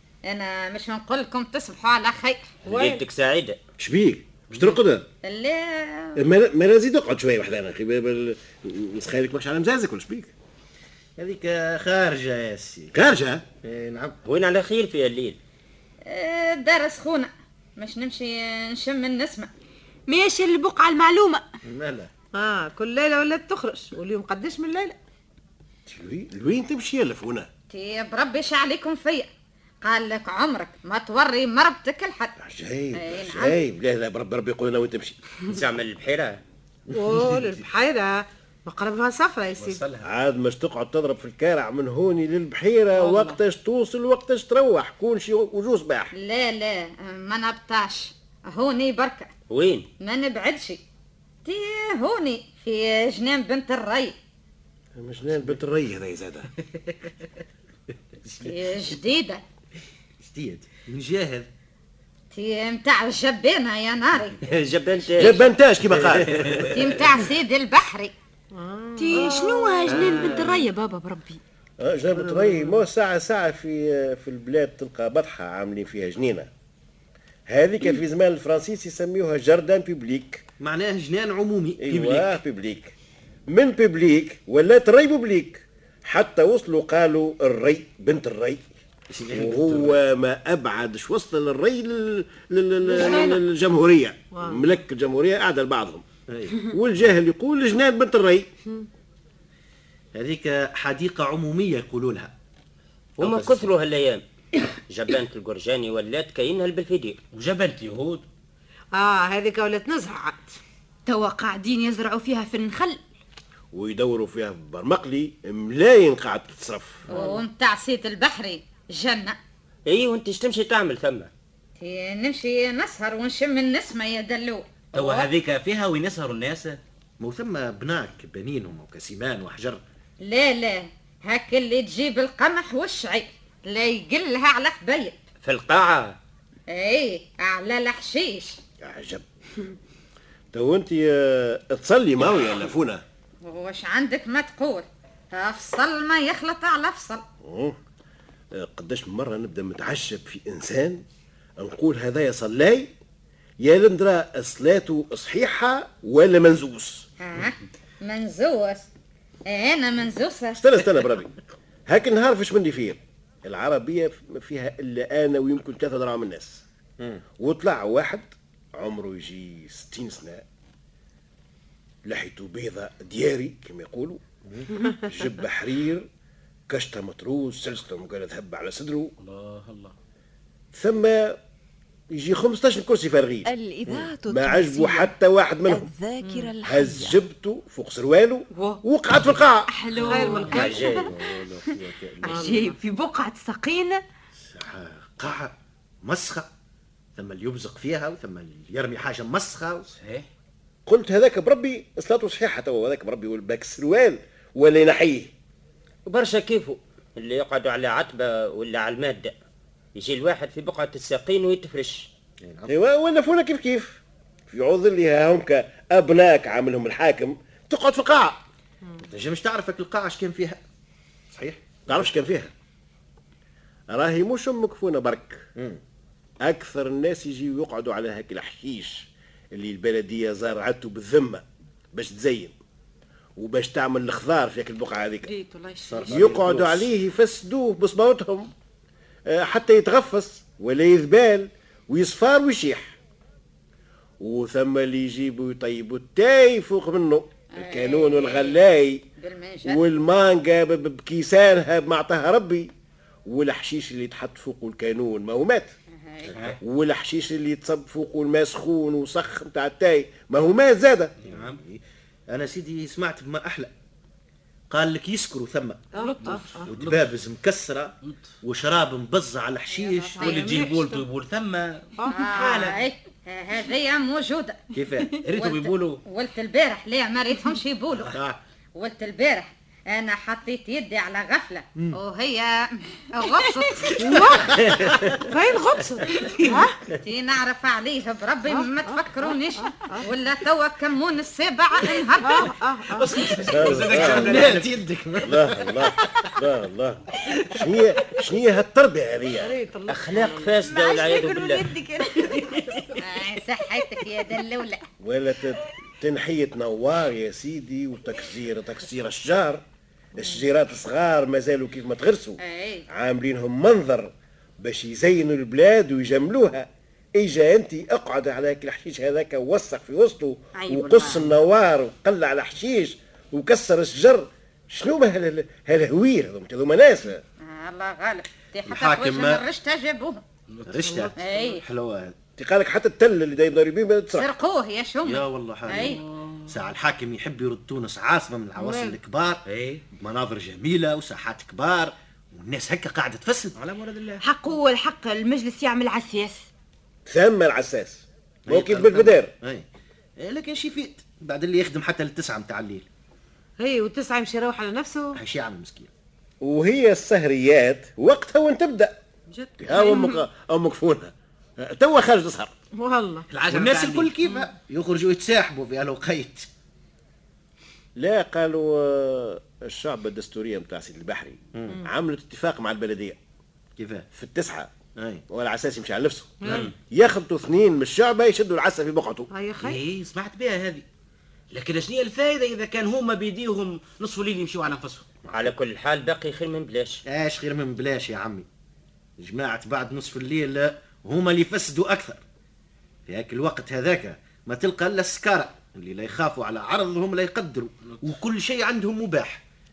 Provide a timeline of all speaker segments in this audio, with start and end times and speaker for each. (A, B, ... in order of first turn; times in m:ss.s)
0:00.3-0:02.5 A
0:02.6-0:03.6 B
0:02.7-0:03.0 C
0:03.8-0:05.0 D
0:05.2-0:06.2 A
0:06.2-0:10.3 D
0:11.2-0:12.9 E
0:12.9-0:13.4 D
0:13.6-0:14.2 E
0:14.2-0:15.4 B
0:16.0-0:19.5 A
0:20.1-0:21.5 F
0:21.6-0:22.1 E
0:22.3-0:25.0 C
0:25.9-0:27.5 D
0:27.7-0:29.3 A
0:29.8-0:32.3 A
0:32.4-0:35.2 D
0:32.9-0:33.6 A
0:35.5-0:36.4 B
0:36.9-0:39.8 C
0:39.6-0:40.0 G
0:40.0-0:46.1 D
0:43.0-0:43.4 C
0:46.1-0:49.3 A
0:49.5-0:49.9 B
0:50.0-0:50.8 A
0:51.4-0:54.1 A
0:55.0-0:56.5 D
0:58.4-0:59.4 A
1:00.2-1:01.5 E
1:02.3-1:04.4 A
1:04.4-1:05.4 B
1:05.2-1:06.5 D
1:06.4-1:06.8 G
1:06.7-1:08.1 A
1:08.5-1:09.9 C
1:09.0-1:11.4 F
1:09.8-1:10.7 E
1:11.8-1:16.5 D
1:12.3-1:12.8 C
1:17.5-1:20.4 D
1:20.6-1:22.4 E
1:21.8-1:22.9 D
1:23.5-1:28.7 D
1:29.1-1:29.9 E
1:29.3-1:36.0 D
1:32.9-1:33.4 C
1:34.3-1:34.6 C
1:36.3-1:36.7 E
1:36.6-1:38.5 D
1:40.1-1:42.3 E
1:43.2-1:44.2 B
1:43.2-1:43.7 E
1:44.9-1:47.2 B
1:47.3-1:48.2 G
1:48.9-1:50.6 C
1:51.1-1:53.0 F
1:53.7-1:57.0 D
1:57.1-1:59.4 A
1:57.1-1:57.4 C
1:59.8-2:01.3 B
2:01.8-2:05.3 A
2:04.9-2:06.8 G
2:07.2-2:09.8 E
2:10.2-2:15.2 A
2:15.4-2:16.2 B
2:16.7-2:18.6 A
2:18.8-2:19.6 D
2:20.5-2:23.0 D
2:23.4-2:27.2 A
2:27.4-2:27.8 D
2:28.5-2:31.0 D
2:31.6-2:32.9 D
2:33.6-2:37.0 D
2:37.2-2:38.9 A
2:39.5-2:40.6 A
2:40.5-2:46.6 D
2:47.4-2:50.4 D
2:52.0-2:54.2 D
2:54.5-2:54.8 E
2:54.8-2:56.1 D
2:56.7-2:59.1 D
2:59.2-2:59.9 G
3:00.7-3:01.4 D
3:02.1-3:03.5 D
3:03.4-3:05.1 H
3:04.2-3:05.9 D
3:05.6-3:07.2 H
3:06.2-3:06.5 C
3:06.6-3:09.7 D
3:08.5-3:08.8 F
3:09.7-3:11.1 F
3:09.9-3:10.8 G
3:09.9-3:10.7 C
3:10.4-3:11.1 B
3:10.5-3:12.7 E
3:12.2-3:12.8 C
3:12.2-3:14.0 F
3:14.4-3:16.5 E
3:17.2-3:19.9 E
3:19.9-3:20.2 G
3:20.8-3:25.3 D
3:26.0-3:29.3 B
3:29.9-3:32.1 B
3:32.4-3:32.7 E
3:32.7-3:38.4 D
3:39.0-3:40.6 E
3:41.3-3:42.0 E
3:41.9-3:42.5 D
3:43.9-3:45.5 D
3:46.4-3:51.4 D
3:51.9-3:52.5 D
3:53.4-3:55.3 D
3:55.2-3:56.3 F
3:55.8-3:56.9 E
3:56.1-3:58.5 D
3:59.3-4:03.0 D
4:04.2-4:09.0 D
4:07.5-4:08.6 A
4:09.2-4:09.8 A
4:09.6-4:12.7 D
4:13.3-4:15.7 D
4:15.9-4:16.3 A
4:16.6-4:21.1 D
4:21.2-4:21.6 G
4:21.2-4:23.7 E
4:24.7-4:25.9 E
4:25.9-4:26.7 C
4:26.0-4:27.1 G
4:26.6-4:30.3 E
4:28.0-4:28.3 G
4:30.2-4:32.8 G
4:30.2-4:31.0 C
4:32.0-4:32.7 C
4:32.1-4:34.6 A
4:34.7-4:35.1 E
4:35.1-4:36.0 G
4:35.3-4:38.2 A
4:38.0-4:38.4 E
4:38.8-4:44.1 A
4:44.0-4:44.5 C
4:44.3-4:45.3 E
4:45.2-4:46.8 C
4:46.2-4:46.7 G
4:46.9-4:52.5 A
4:48.5-4:50.0 C
4:52.2-4:53.2 C
4:52.9-4:54.7 G
4:53.2-4:55.7 E
4:53.5-4:54.4 D
4:55.2-4:59.5 D
4:57.2-4:57.6 E
4:59.4-5:00.6 C
4:59.9-5:01.8 B
5:00.7-5:02.4 F
5:03.0-5:04.8 A
5:05.0-5:09.6 D
5:10.2-5:12.4 D
5:12.4-5:12.8 A
5:12.9-5:27.2 D
5:20.6-5:21.1 F
5:27.4-5:30.2 A
5:28.7-5:29.4 E
5:30.5-5:30.9 G
5:30.6-5:32.1 E
5:30.9-5:31.4 C
5:31.2-5:31.6 A
5:32.4-5:34.3 D
5:34.1-5:36.0 A
5:35.0-5:39.4 E
5:35.9-5:36.6 G
5:38.6-5:39.0 C
5:39.4-5:39.8 G
5:40.0-5:43.6 E
5:43.5-5:44.2 G
5:44.2-5:46.5 F
5:47.0-5:49.3 D
5:48.4-5:49.6 E
5:50.2-5:52.9 E
5:53.6-5:55.2 C
5:55.1-5:55.9 E
5:56.4-5:58.9 D
5:59.3-6:00.1 C
5:59.6-6:02.5 D
6:02.7-6:03.3 C
6:03.3-6:04.3 G
6:03.5-6:06.5 E
6:08.0-6:13.2 D
6:11.5-6:11.8 E
6:13.8-6:14.0 E
6:14.1-6:14.7 D
6:14.9-6:15.2 E
6:15.3-6:19.3 D
6:16.4-6:16.7 C
6:16.5-6:16.7 G
6:19.3-6:19.8 C
6:19.6-6:20.8 G
6:21.5-6:25.1 G
6:25.3-6:27.0 B
6:27.0-6:28.4 E
6:29.2-6:32.2 E
6:33.1-6:39.4 E
6:37.8-6:38.1 G